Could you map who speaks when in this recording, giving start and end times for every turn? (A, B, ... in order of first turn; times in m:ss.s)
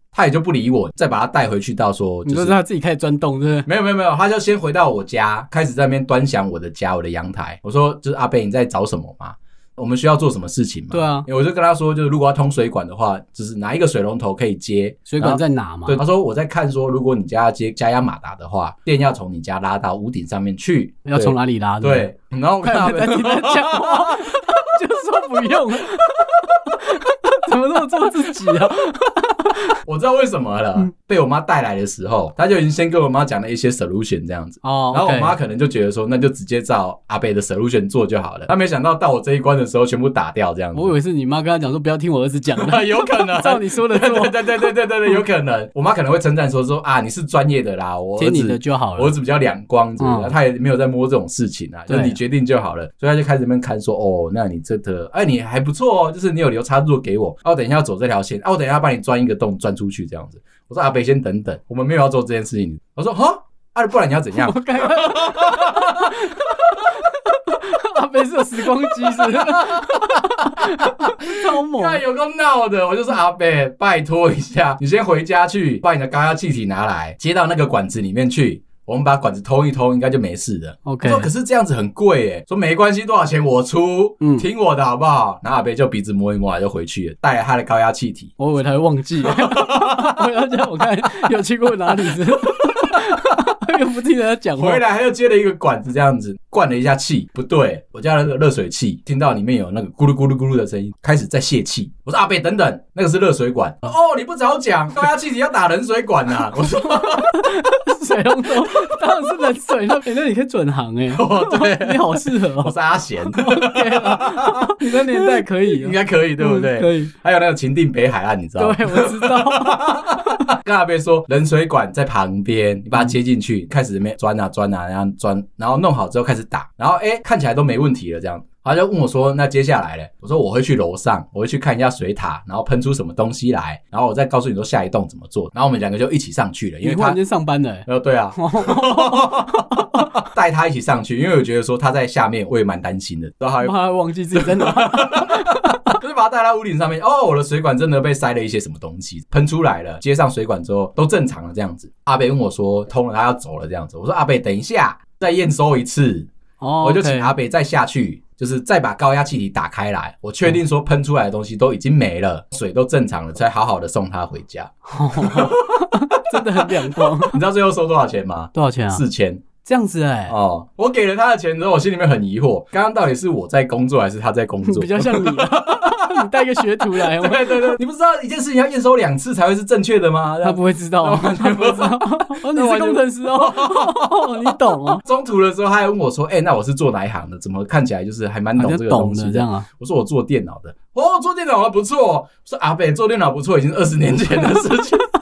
0:00.1-0:02.6 A
0:02.3-0:03.7 B
0:03.7-0:24.6 A
0:10.9-0:11.3 B
0:15.1-0:16.0 B
0:21.1-0:22.1 B
0:22.6-0:29.8 B
0:29.8-0:41.0 A
0:34.6-0:35.4 B
0:40.8-0:44.7 B
0:42.5-1:07.1 A
0:48.2-0:49.2 B
0:50.0-0:50.3 B
0:51.9-0:52.2 B
1:04.4-1:12.0 B
1:08.8-1:28.3 A
1:20.8-1:21.3 B
1:24.2-1:24.5 B
1:28.4-1:34.8 B
1:29.2-1:30.2 A
1:34.6-1:47.5 A
1:46.6-1:52.8 B
1:48.7-1:48.9 A
1:51.1-2:17.2 A
1:53.3-1:57.1 B
1:58.6-2:00.4 B
2:16.8-2:20.1 B
2:17.9-2:23.8 A
2:23.6-2:26.0 B
2:24.3-2:36.3 A
2:36.6-2:37.3 B
2:36.8-2:49.4 A
2:44.9-2:47.4 B
2:48.5-2:49.0 B
2:49.6-2:50.4 B
2:50.3-3:15.1 A
2:54.6-2:57.8 B
3:00.4-3:05.0 B
3:08.6-3:09.7 B